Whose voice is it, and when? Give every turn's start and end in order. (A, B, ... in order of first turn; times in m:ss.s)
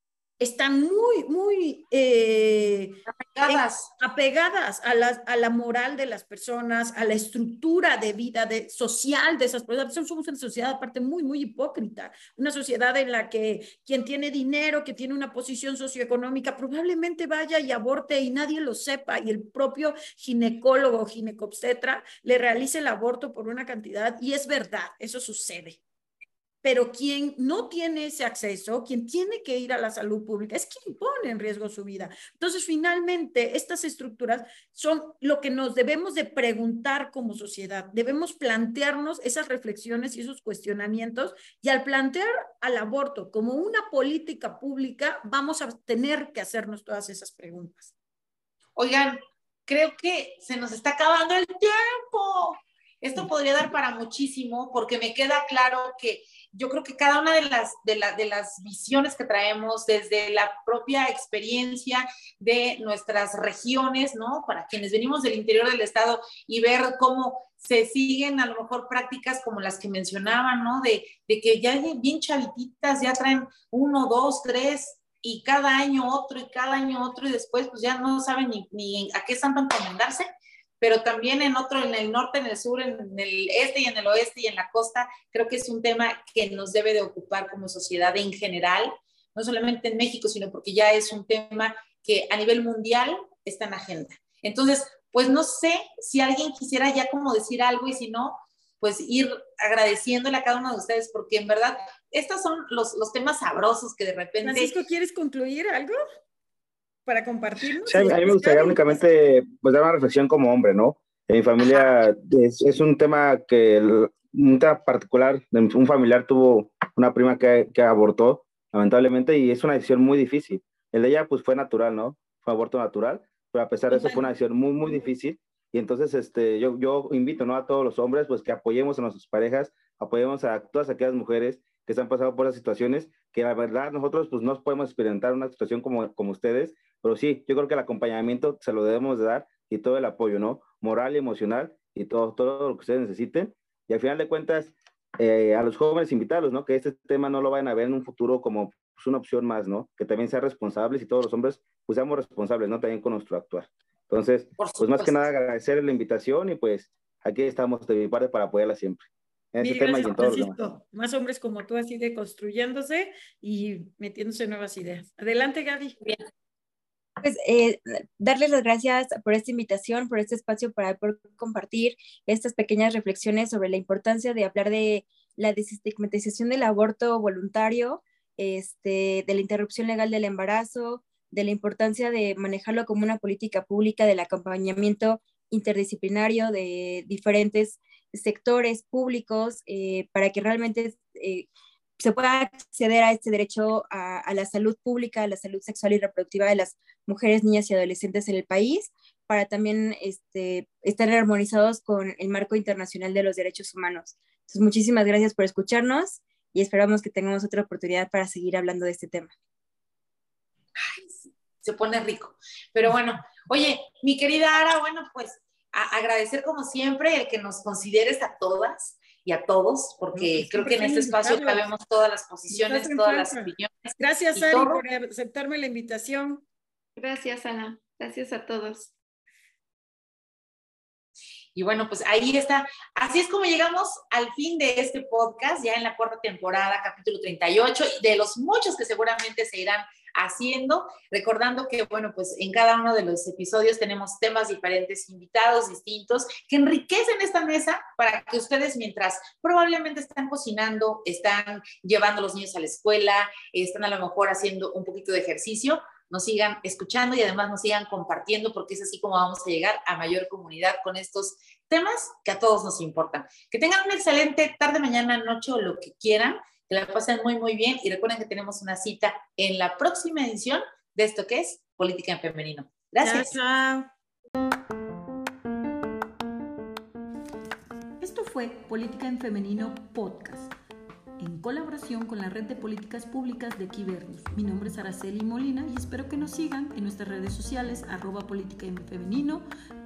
0:00.4-0:25.8 A
0:03.2-0:03.9 B
0:26.6-0:47.9 A
0:48.8-1:20.2 B
1:20.8-1:44.7 B
1:44.4-1:46.0 A
1:47.1-1:49.0 A
1:47.9-2:40.6 C
2:03.9-2:04.3 A
2:34.6-2:35.2 B
2:39.6-2:46.2 A
2:47.2-3:11.5 D
3:12.0-3:29.3 D
3:30.8-3:44.8 B
3:40.2-3:41.6 A
3:42.5-3:46.4 A
3:47.0-3:48.9 E
3:51.6-4:33.4 B
4:33.0-4:33.9 A
4:38.0-4:40.5 A
4:41.2-4:49.4 A